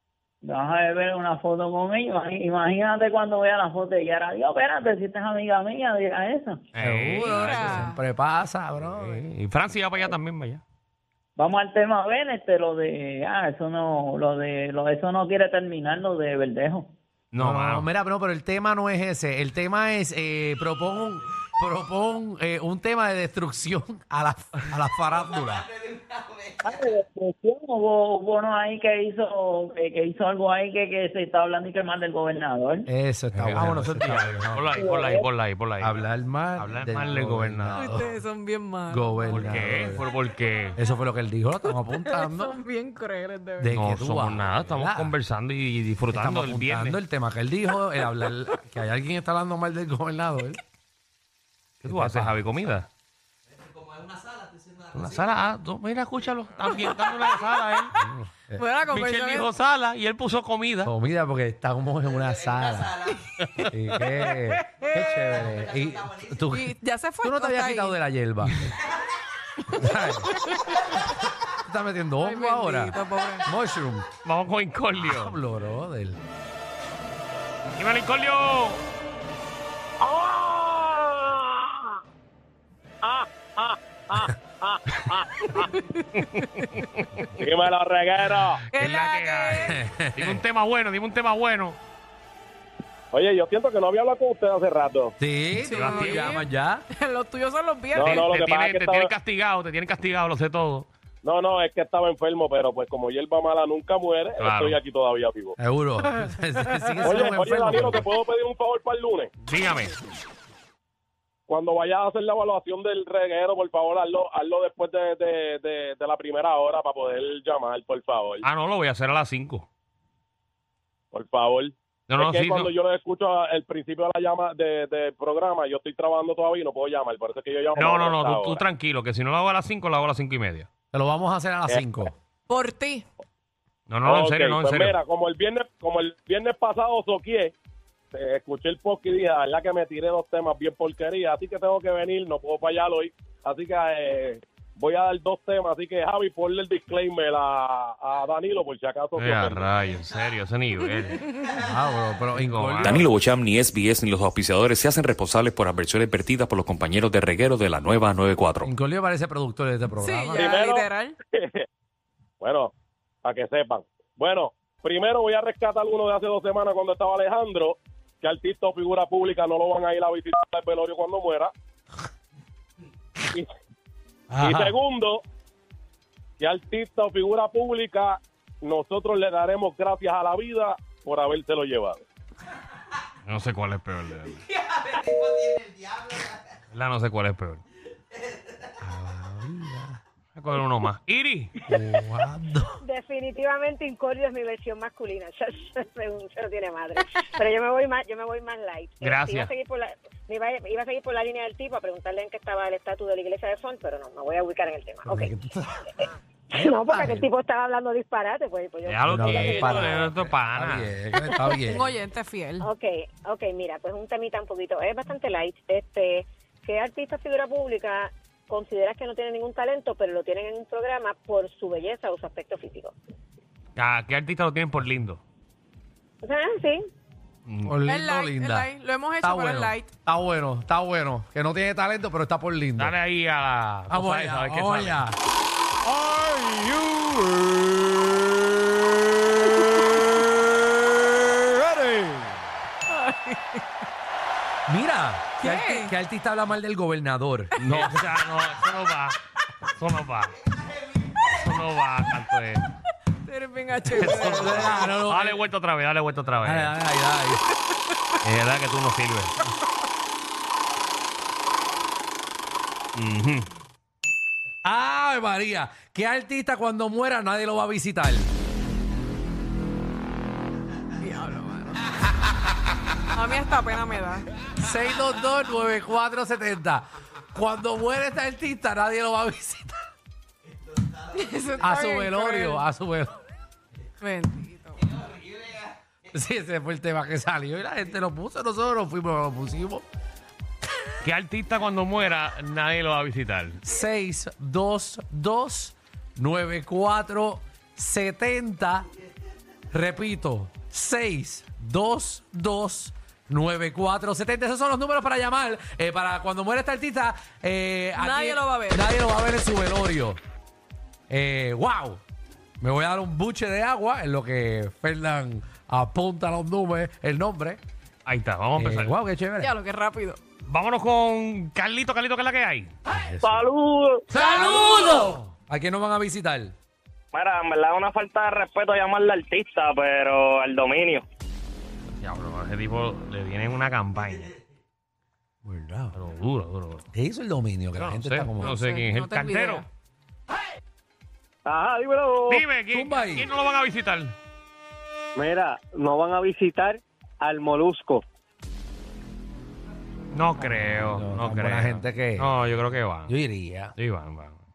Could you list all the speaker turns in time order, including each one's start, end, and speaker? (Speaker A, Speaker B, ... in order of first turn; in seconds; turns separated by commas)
Speaker A: 0.4-6.6, Speaker B: 6.7-7.8, Speaker C: 6.8-9.2, Speaker D: 7.2-8.0, Speaker B: 8.8-10.6, Speaker A: 11.4-16.9, Speaker B: 17.3-17.9, Speaker C: 17.4-25.7, Speaker A: 26.6-32.9, Speaker C: 32.9-34.8, Speaker B: 33.3-36.0, Speaker A: 34.7-35.2, Speaker C: 35.8-38.1, Speaker B: 36.6-38.1, Speaker D: 37.8-39.5, Speaker C: 38.9-40.1, Speaker B: 39.3-40.8, Speaker C: 40.8-42.6, Speaker D: 41.7-43.7, Speaker C: 43.6-45.1, Speaker B: 43.8-47.0, Speaker C: 46.1-50.6, Speaker B: 51.8-52.9, Speaker C: 51.8-52.7, Speaker B: 54.9-58.1, Speaker D: 56.7-58.0, Speaker D: 58.5-59.5, Speaker B: 58.9-60.9, Speaker C: 60.8-68.8, Speaker B: 63.4-64.0, Speaker D: 64.3-64.8, Speaker D: 66.5-68.0, Speaker C: 69.7-74.1, Speaker D: 72.2-73.5, Speaker B: 74.2-75.4, Speaker C: 75.0-76.2, Speaker B: 77.8-78.8, Speaker E: 80.0-81.6, Speaker E: 83.0-85.2, Speaker B: 85.1-87.5, Speaker E: 87.4-88.6, Speaker B: 88.3-91.8, Speaker D: 88.7-89.8, Speaker C: 89.6-90.4, Speaker E: 93.1-95.1, Speaker C: 95.2-96.8, Speaker D: 95.5-98.3, Speaker B: 95.7-96.4, Speaker E: 98.0-99.1, Speaker B: 98.1-100.9, Speaker E: 101.2-105.6, Speaker B: 104.4-104.8, Speaker C: 105.6-108.0, Speaker E: 107.0-109.3, Speaker B: 109.5-110.0, Speaker E: 111.5-118.4, Speaker B: 118.4-119.7, Speaker E: 121.1-128.6, Speaker B: 122.1-122.7, Speaker B: 127.8-130.7, Speaker C: 130.9-132.1, Speaker D: 132.5-133.1, Speaker B: 133.9-135.0, Speaker E: 134.1-137.5, Speaker E: 138.1-149.6, Speaker B: 149.2-151.2, Speaker C: 151.5-153.1, Speaker B: 152.3-153.0, Speaker F: 152.8-158.7, Speaker C: 158.6-160.5, Speaker D: 160.0-161.2, Speaker E: 160.4-161.7, Speaker E: 162.4-162.7, Speaker E: 163.2-171.5, Speaker C: 174.3-174.8, Speaker E: 174.4-175.2, Speaker E: 176.4-182.0, Speaker B: 183.3-184.4, Speaker B: 186.7-187.6, Speaker C: 188.8-190.0, Speaker B: 190.4-191.6, Speaker C: 191.7-192.8, Speaker G: 192.8-205.3, Speaker B: 199.0-199.5, Speaker C: 205.1-205.9, Speaker G: 206.5-210.0, Speaker C: 206.5-207.3, Speaker B: 208.9-211.0, Speaker C: 209.1-212.0, Speaker G: 211.3-211.6, Speaker D: 211.6-212.7, Speaker G: 212.6-222.9, Speaker B: 223.8-225.2, Speaker G: 226.2-226.9, Speaker B: 227.5-227.8, Speaker C: 227.6-233.0, Speaker D: 227.9-229.9, Speaker B: 232.8-235.0, Speaker C: 233.9-235.2, Speaker C: 235.8-238.3, Speaker C: 240.9-242.5, Speaker D: 242.9-243.7, Speaker C: 244.7-247.9, Speaker D: 245.4-245.9, Speaker B: 247.6-249.2, Speaker B: 249.8-250.4, Speaker B: 251.3-252.6, Speaker D: 253.2-254.9, Speaker B: 253.9-256.8, Speaker C: 254.0-255.4, Speaker C: 256.4-257.5, Speaker B: 258.2-259.4, Speaker B: 262.9-263.5, Speaker C: 264.6-268.3, Speaker D: 271.0-271.9, Speaker D: 273.1-274.3, Speaker C: 274.5-279.9, Speaker D: 281.1-282.6, Speaker C: 281.6-283.2, Speaker D: 284.0-284.9, Speaker C: 286.1-289.9, Speaker B: 291.0-293.6, Speaker C: 293.6-298.9, Speaker C: 299.7-310.2, Speaker D: 307.9-308.9, Speaker C: 311.1-312.0, Speaker C: 312.6-317.6, Speaker B: 318.1-319.0, Speaker C: 318.6-319.6, Speaker D: 319.4-320.2, Speaker B: 320.5-322.7, Speaker C: 322.9-323.5, Speaker H: 323.2-324.0, Speaker C: 324.1-326.6, Speaker H: 327.1-331.1, Speaker B: 331.9-334.3, Speaker C: 335.4-336.0, Speaker B: 335.9-336.9, Speaker C: 336.9-338.6, Speaker B: 337.8-339.6, Speaker D: 338.4-339.7, Speaker H: 341.4-342.4, Speaker B: 342.3-344.1, Speaker C: 342.7-343.3, Speaker H: 345.2-348.0, Speaker B: 350.1-353.1, Speaker C: 350.4-352.5, Speaker C: 353.1-353.8, Speaker B: 353.8-354.4